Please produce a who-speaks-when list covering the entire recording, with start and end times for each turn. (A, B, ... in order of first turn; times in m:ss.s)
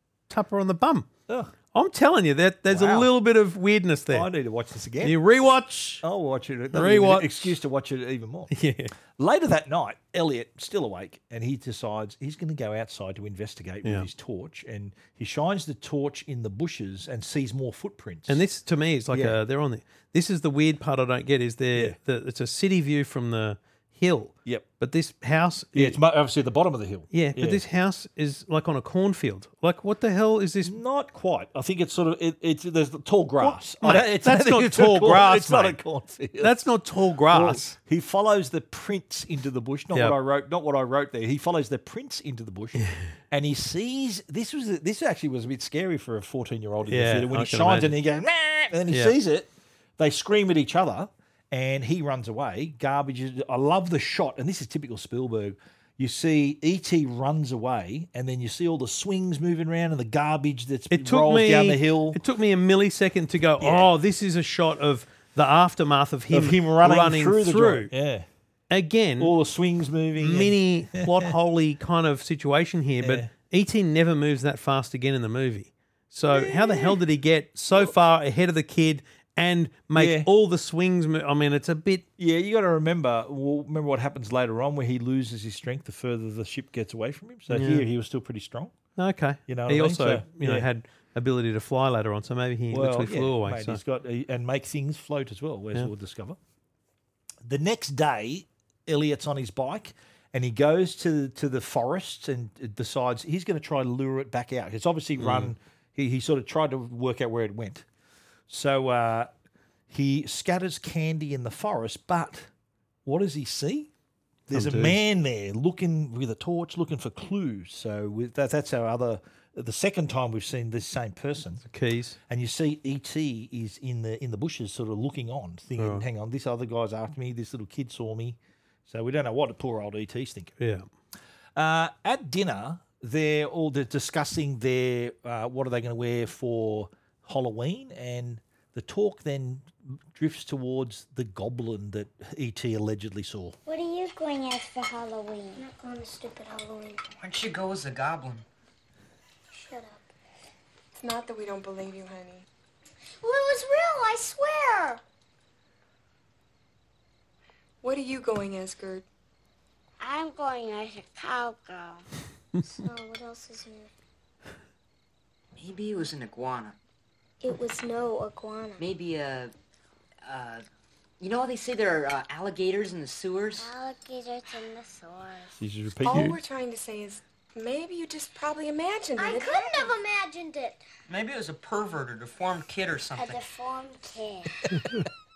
0:00.3-0:01.1 A
0:01.7-0:04.3 A
0:02.7-0:03.1 B
0:04.1-0:05.2 B
0:05.0-0:06.0 A
0:06.0-0:08.5 B
0:06.7-0:07.5 A
0:08.5-0:08.9 A
0:09.2-0:18.4 B
0:18.3-0:26.0 A
0:19.1-0:19.4 B
0:25.7-0:27.6 B
0:27.1-0:30.7 A
0:30.6-0:36.5 B
0:33.4-0:35.8 A
0:36.4-0:37.7 A
0:37.3-1:02.2 B
0:42.8-0:43.0 A
0:46.9-0:47.9 A
1:00.9-1:07.9 A
1:03.6-1:03.9 B
1:06.3-1:08.2 B
1:08.7-1:09.3 A
1:09.2-1:11.3 B
1:10.2-1:22.0 A
1:13.0-1:13.3 B
1:16.3-1:17.0 B
1:19.9-1:20.3 B
1:22.2-1:28.7 B
1:27.5-1:27.9 A
1:29.0-1:33.8 A
1:29.5-1:30.7 B
1:32.7-1:36.4 B
1:37.4-1:47.8 B
1:45.2-1:45.5 A
1:48.5-1:49.3 B
1:49.9-1:52.5 B
1:53.0-1:53.9 B
1:54.5-2:01.6 B
1:54.5-1:55.0 A
2:01.7-2:02.2 A
2:02.3-2:10.5 B
2:05.8-2:06.0 A
2:10.6-2:10.8 A
2:11.6-2:23.6 B
2:23.7-2:27.0 C
2:27.2-2:28.4 D
2:29.5-2:30.0 C
2:31.0-2:32.4 E
2:33.2-2:35.0 C
2:37.8-2:39.0 E
2:40.0-2:42.0 C
2:42.6-2:43.9 C
2:45.6-2:46.8 D
2:47.4-2:48.8 C
2:48.8-2:49.5 D
2:50.2-2:50.6 D
2:51.2-2:53.7 D
2:53.6-2:55.5 C
2:55.6-2:56.4 B
2:56.0-2:59.9 E
2:56.1-2:56.4 A
2:59.2-3:00.8 C
3:01.1-3:03.4 D
3:03.2-3:04.6 C